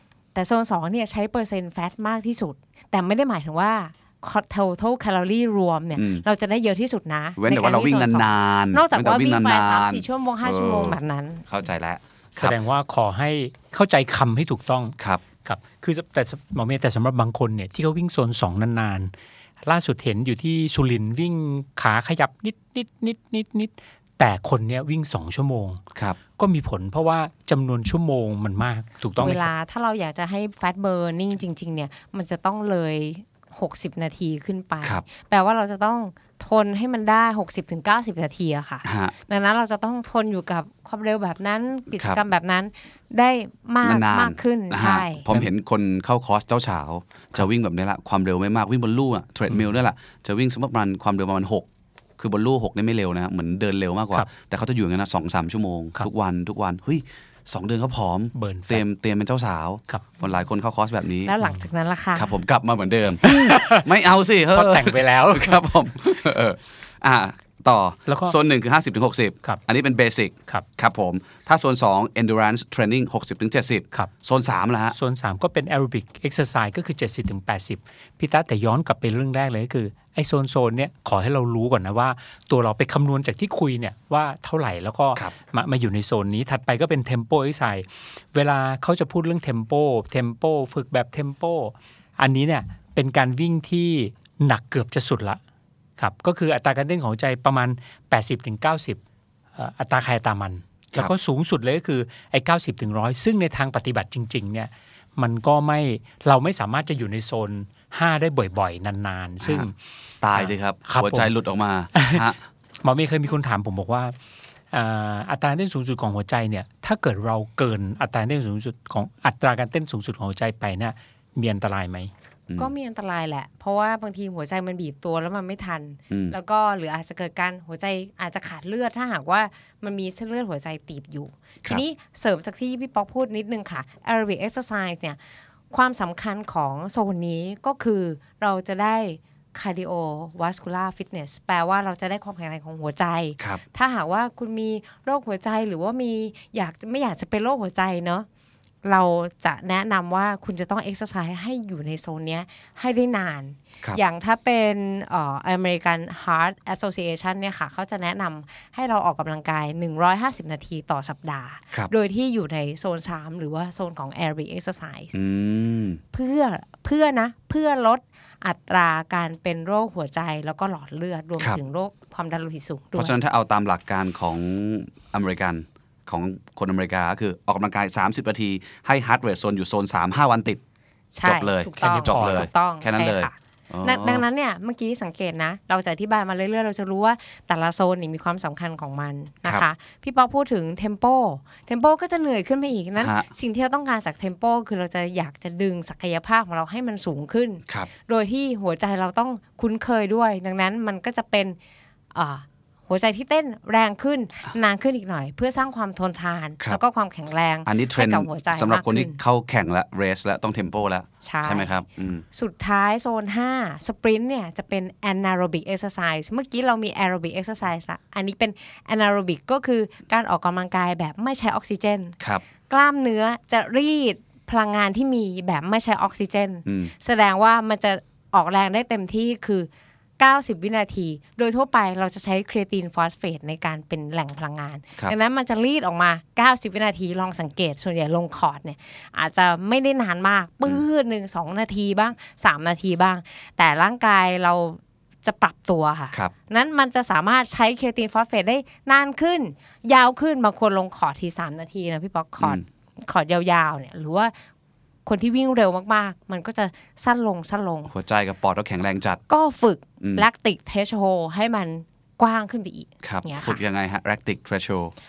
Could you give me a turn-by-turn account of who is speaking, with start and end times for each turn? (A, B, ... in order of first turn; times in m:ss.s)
0:00.4-0:11.4 A
0:06.0-0:06.2 B
0:07.4-0:12.6 B
0:12.4-0:19.1 C
0:19.6-0:25.8 C
0:26.4-0:29.5 C
0:29.2-0:45.3 A
0:38.8-0:39.1 B
0:43.8-0:51.7 B
0:52.2-1:01.3 B
0:58.3-0:58.8 C
1:01.2-1:02.3 A
1:02.2-1:15.0 B
1:03.2-1:03.9 C
1:04.5-1:05.6 C
1:08.1-1:08.4 C
1:14.9-1:35.4 C
1:36.0-1:39.0 C
1:39.6-1:49.8 C
1:49.4-1:49.7 B
1:50.2-1:52.4 B
1:50.3-1:51.3 C
1:51.9-1:52.2 C
1:52.8-1:54.1 C
1:54.7-2:02.1 C
2:02.6-2:15.2 A
2:15.7-2:28.3 A
2:28.8-2:45.1 A
2:45.1-2:46.0 B
2:46.1-2:53.2 A
2:53.0-3:00.6 B
3:01.1-3:21.6 A
3:01.2-3:04.2 B
3:01.8-3:02.5 C
3:13.0-3:13.3 B
3:22.1-3:29.2 A
3:27.7-3:32.3 B
3:31.2-3:31.7 A
3:32.3-3:42.2 A
3:42.7-4:14.3 A
3:46.7-3:46.9 B
4:15.1-4:17.9 A
4:17.9-4:19.2 B
4:19.3-4:23.6 A
4:20.0-4:20.3 B
4:23.0-4:24.9 B